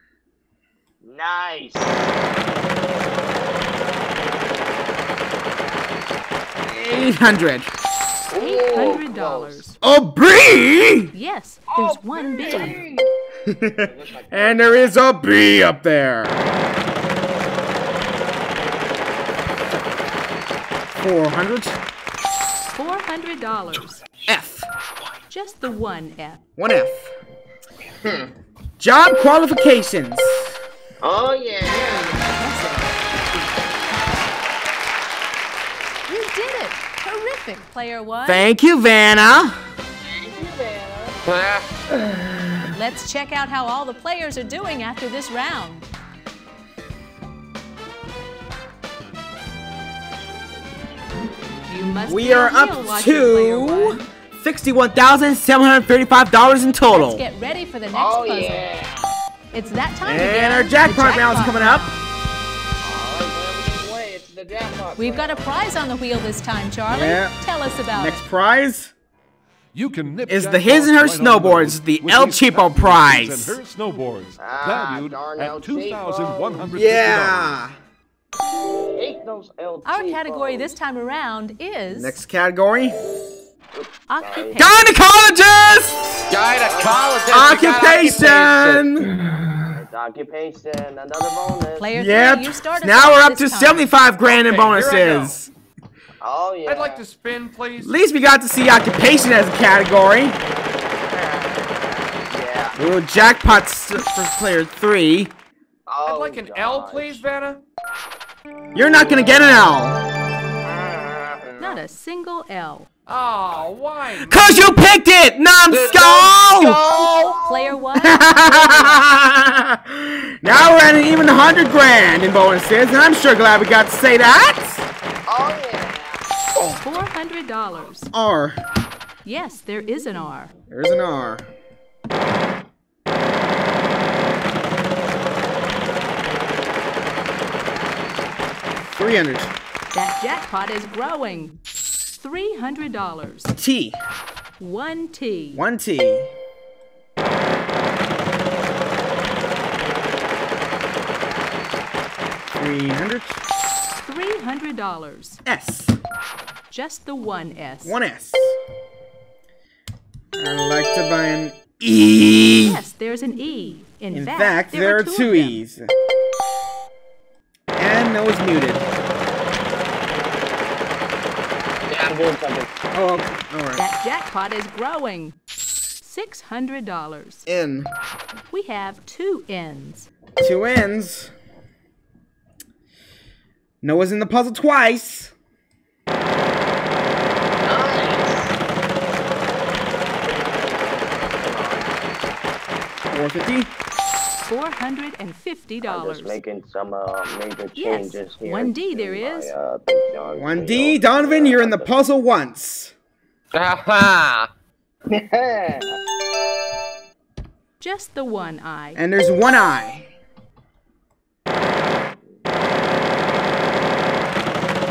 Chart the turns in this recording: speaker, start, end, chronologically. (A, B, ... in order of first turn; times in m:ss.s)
0:01.0-0:02.1 A
0:06.6-0:07.4 A
0:06.8-0:07.7 B
0:08.3-0:09.6 A
0:08.4-0:09.8 C
0:09.8-0:11.1 B
0:11.1-0:12.8 C
0:11.7-0:13.1 A
0:13.5-0:16.4 B
0:13.8-0:15.0 A
0:20.9-0:21.8 B
0:22.7-0:24.0 C
0:24.2-0:24.7 B
0:25.3-0:26.4 C
0:26.6-0:27.1 B
0:28.0-0:28.3 A
0:28.8-0:30.5 B
0:31.0-0:32.3 A
0:31.7-0:33.0 C
0:36.1-0:38.5 C
0:38.2-0:39.6 B
0:40.0-0:41.2 A
0:41.2-0:41.6 D
0:42.7-0:45.9 C
0:51.7-0:54.0 C
0:52.1-0:57.2 B
0:56.9-0:58.6 C
0:57.9-0:59.1 A
0:59.5-1:02.1 C
1:00.0-1:01.9 B
1:02.8-1:05.6 A
1:05.0-1:08.2 C
1:06.9-1:08.9 B
1:09.7-1:17.6 E
1:10.3-1:13.6 B
1:14.4-1:16.7 A
1:16.7-1:17.7 B
1:18.8-1:20.7 A
1:19.8-1:22.2 C
1:21.9-1:23.0 B
1:23.7-1:24.6 A
1:24.1-1:24.8 C
1:24.5-1:26.3 B
1:26.3-1:28.9 D
1:26.6-1:27.6 A
1:27.3-1:29.1 B
1:29.7-1:31.9 A
1:31.8-1:33.9 C
1:31.9-1:35.5 B
1:34.3-1:35.4 F
1:36.2-1:37.0 A
1:36.7-1:37.9 F
1:37.8-1:40.4 B
1:41.0-1:43.6 A
1:42.8-1:45.3 B
1:45.9-1:47.2 A
1:46.0-1:47.6 F
1:48.7-1:50.0 B
1:50.6-1:51.8 A
1:51.6-1:52.9 C
1:53.1-1:54.8 F
1:54.2-1:56.8 B
1:55.7-1:56.1 D
1:55.8-1:57.8 A
1:57.4-1:59.0 C
1:58.0-2:04.9 B
2:05.3-2:06.2 A
2:06.6-2:08.1 C
2:08.1-2:08.6 B
2:09.2-2:10.5 C
2:10.7-2:11.4 B
2:18.9-2:19.5 B
2:19.9-2:21.6 C
2:22.1-2:23.5 C
2:23.5-2:24.0 B
2:24.6-2:25.6 C
2:25.5-2:26.3 B
2:32.6-2:33.4 B
2:34.0-2:35.4 C
2:35.4-2:36.0 B
2:36.7-2:38.0 C
2:37.8-2:38.5 B
2:40.3-2:42.8 B
2:42.6-2:45.6 C
2:44.1-2:45.9 B
2:47.7-2:48.9 B
2:51.9-2:52.7 A
2:52.9-2:53.8 B
2:53.8-2:55.3 C
2:56.0-2:57.4 C
2:57.4-2:57.9 B
2:58.5-3:00.1 C
3:00.4-3:01.3 B
3:03.8-3:05.3 B
3:07.6-3:08.5 A
3:10.2-3:11.9 A
3:13.1-3:13.7 B
3:14.4-3:16.4 C
3:15.9-3:21.9 A
3:17.8-3:19.5 C
3:20.3-3:22.9 B
3:23.5-3:24.5 D
3:25.1-3:26.0 A
3:27.8-3:29.0 C
3:28.9-3:30.1 B